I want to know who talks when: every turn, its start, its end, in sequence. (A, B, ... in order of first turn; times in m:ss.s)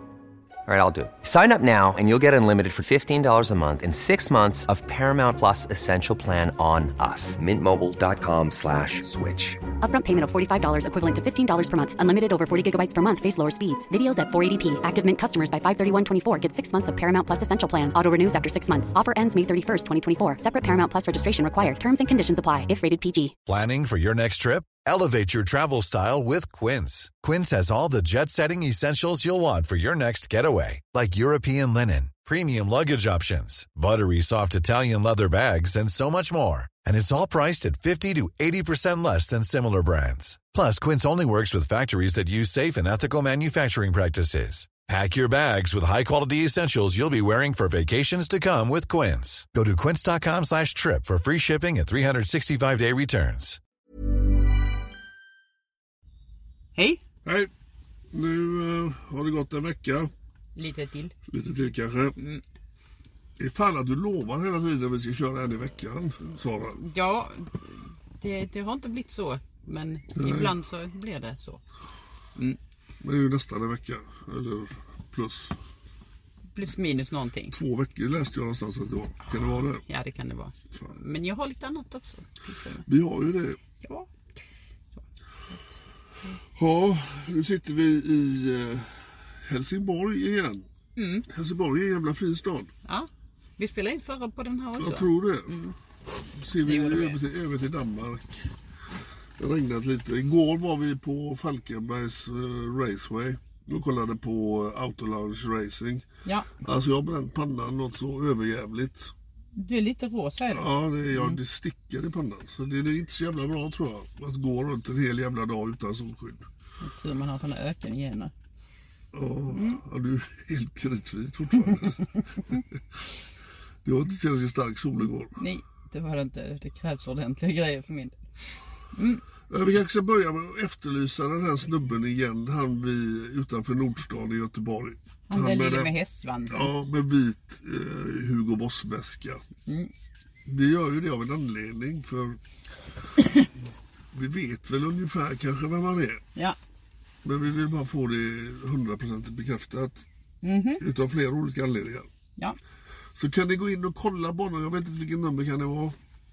0:00.7-0:09.6 A
0:09.8-0:23.4 B
0:23.5-0:53.6 C
0:56.7-0:57.0 D
0:57.2-0:57.5 E
0:58.1-1:00.1 E
1:00.5-1:01.1 D
1:01.3-1:02.2 E
1:02.2-1:02.4 D
1:03.4-1:06.8 E
1:06.8-1:11.6 D
1:10.1-1:10.5 E
1:13.0-1:15.5 E
1:16.5-1:17.5 D
1:17.5-1:19.8 E
1:19.9-1:22.8 D
1:22.8-1:23.6 E
1:23.8-1:24.1 D
1:25.0-1:25.6 D
1:26.6-1:30.6 E
1:31.0-1:31.2 D
1:31.3-1:32.7 E
1:32.8-1:35.7 D
1:34.8-1:35.5 E
1:36.3-1:38.5 E
1:36.6-1:37.2 D
1:39.4-1:46.0 E
1:46.2-1:46.6 D
1:46.6-1:49.1 E
1:49.6-1:51.4 D
1:50.5-1:56.4 E
1:56.8-1:58.3 D
1:59.1-2:03.0 E
1:59.5-1:59.8 D
2:03.8-2:05.3 E
2:05.4-2:08.2 D
2:08.9-2:09.2 D
2:09.5-2:15.9 E
2:15.3-2:16.7 D
2:16.5-2:19.4 E
2:20.4-2:22.4 E
2:23.2-2:23.5 D
2:24.1-2:26.2 E
2:27.2-2:30.0 E
2:30.4-2:30.8 D
2:30.8-2:32.1 E
2:33.2-2:36.0 E